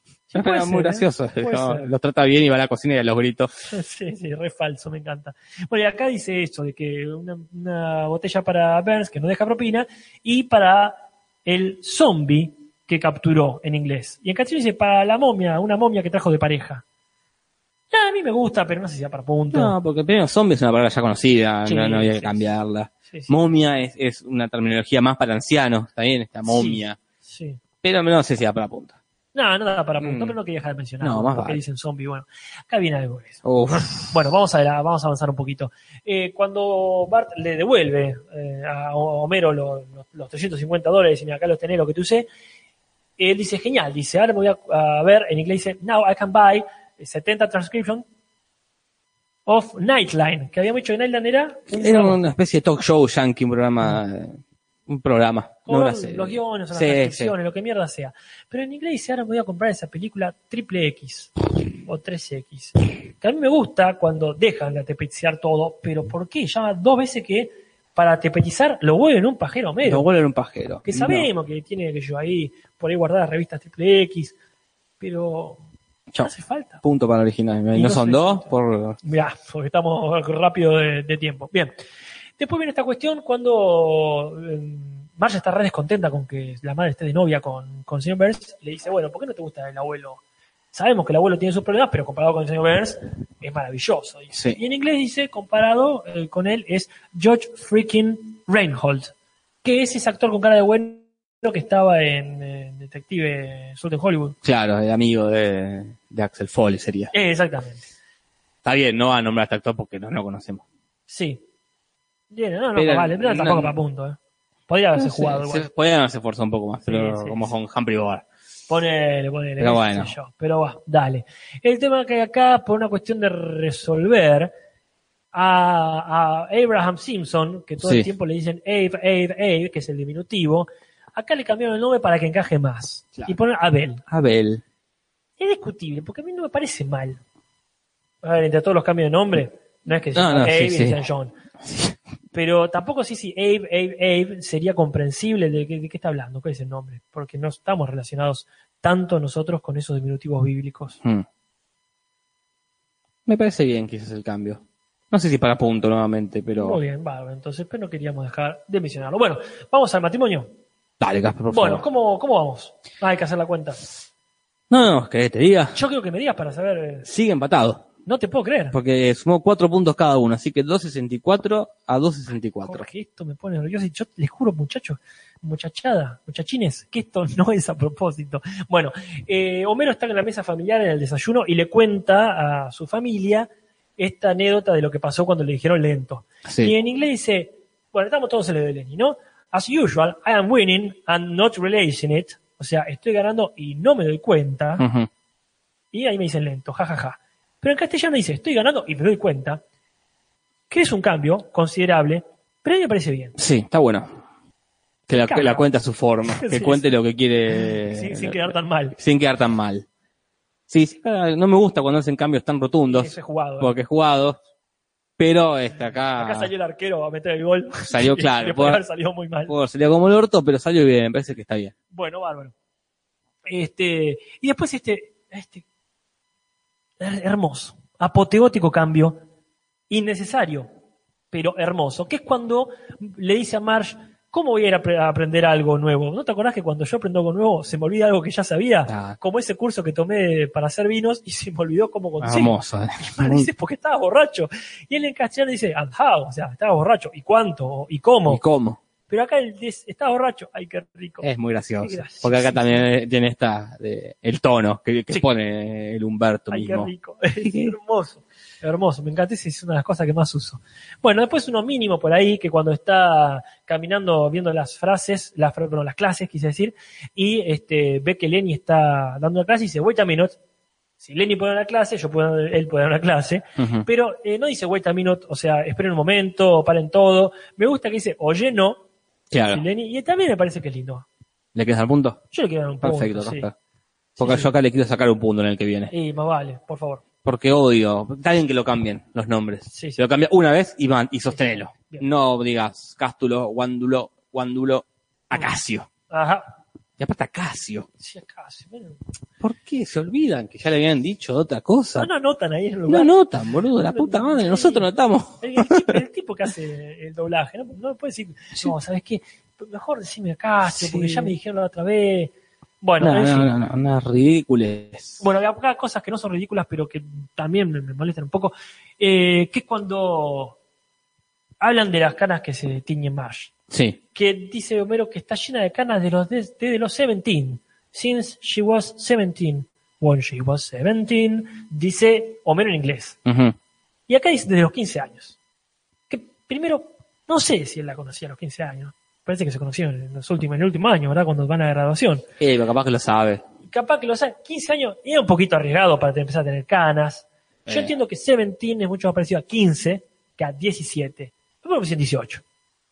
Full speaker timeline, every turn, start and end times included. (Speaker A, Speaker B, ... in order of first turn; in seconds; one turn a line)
Speaker A: 0.3-1.9
Speaker B: 0.3-3.5
Speaker A: 3.7-16.8
Speaker A: 17.9-19.7
Speaker B: 19.5-27.0
Speaker A: 21.6-22.4
Speaker A: 26.4-27.6
Speaker B: 27.8-29.0
Speaker A: 29.3-42.3
Speaker B: 30.0-30.4
Speaker B: 31.0-31.6
Speaker B: 33.4-34.1
Speaker A: 43.2-48.0
Speaker A: 49.5-52.2
Speaker B: 51.7-57.3
Speaker A: 55.6-70.0
Speaker B: 69.8-71.3
Speaker A: 70.8-74.4
Speaker A: 75.0-75.6
Speaker A: 76.2-76.8
Speaker B: 76.8-79.0
Speaker A: 77.7-81.7
Speaker A: 82.4-90.2
Speaker A: 90.7-99.1
Speaker B: 94.3-94.6
Speaker A: 99.6-104.4
Speaker B: 104.4-107.1
Speaker A: 107.1-107.9
Speaker B: 108.6-110.6
Speaker A: 111.1-111.4
Speaker A: 112.3-115.7
Speaker B: 112.7-113.8
Speaker B: 115.0-118.2
Speaker A: 116.9-117.5
Speaker A: 118.7-124.5
Speaker B: 119.6-120.1
Speaker A: 125.3-134.0
Speaker B: 127.8-128.1
Speaker B: 134.1-134.6
Speaker A: 135.4-137.2
Speaker A: 138.2-141.3
Speaker B: 140.1-141.0
Speaker B: 141.6-141.9
Speaker A: 142.3-151.0
Speaker B: 153.2-156.8
Speaker A: 156.6-160.5
Speaker B: 161.0-161.8
Speaker A: 161.5-163.9
Speaker B: 164.7-165.8
Speaker A: 165.7-167.1
Speaker B: 167.1-167.8
Speaker A: 168.1-168.8
Speaker B: 168.7-172.9
Speaker A: 172.6-194.8
Speaker B: 186.4-186.7
Speaker B: 194.8-195.1
Speaker A: 195.9-199.6
Speaker A: 200.7-203.3
Speaker B: 203.4-204.2
Speaker B: 205.1-209.9
Speaker A: 205.1-205.7
Speaker A: 206.2-206.9
Speaker A: 207.6-208.9
Speaker B: 210.7-214.4
Speaker A: 212.9-213.7
Speaker B: 215.2-216.5
Speaker A: 216.1-219.5
Speaker B: 217.9-218.8
Speaker B: 219.5-221.7
Speaker A: 221.9-222.5
Speaker A: 223.4-225.6
Speaker A: 227.0-229.2
Speaker A: 229.9-230.7
Speaker A: 231.3-248.4
Speaker B: 238.9-239.2
Speaker B: 242.2-243.5
Speaker B: 248.3-248.8
Speaker A: 249.1-251.3
Speaker B: 251.2-257.7
Speaker A: 251.8-252.9
Speaker A: 256.5-270.4
Speaker A: 271.0-278.8
Speaker B: 273.6-273.9
Speaker B: 279.3-279.6
Speaker A: 279.5-281.1
Speaker B: 281.6-282.2
Speaker A: 282.3-283.5
Speaker B: 282.8-283.5
Speaker A: 284.2-284.5
Speaker B: 284.2-285.9
Speaker A: 285.9-287.0
Speaker B: 287.2-295.9
Speaker A: 289.7-290.0
Speaker A: 291.3-292.1
Speaker A: 296.1-296.5
Speaker B: 297.0-297.9
Speaker A: 298.0-299.0
Speaker B: 299.4-302.1
Speaker A: 302.0-303.1
Speaker B: 302.9-306.0
Speaker A: 303.9-304.9
Speaker A: 305.4-313.5
Speaker B: 310.6-311.3
Speaker B: 313.0-315.2
Speaker A: 315.2-320.6
Speaker A: 321.6-323.5
Speaker B: 323.7-324.0
Speaker A: 324.1-333.2
Speaker B: 333.2-333.6
Speaker A: 334.1-335.4
Speaker A: 336.1-342.2
Speaker B: 342.4-343.4
Speaker A: 343.7-352.4
Speaker B: 347.6-347.9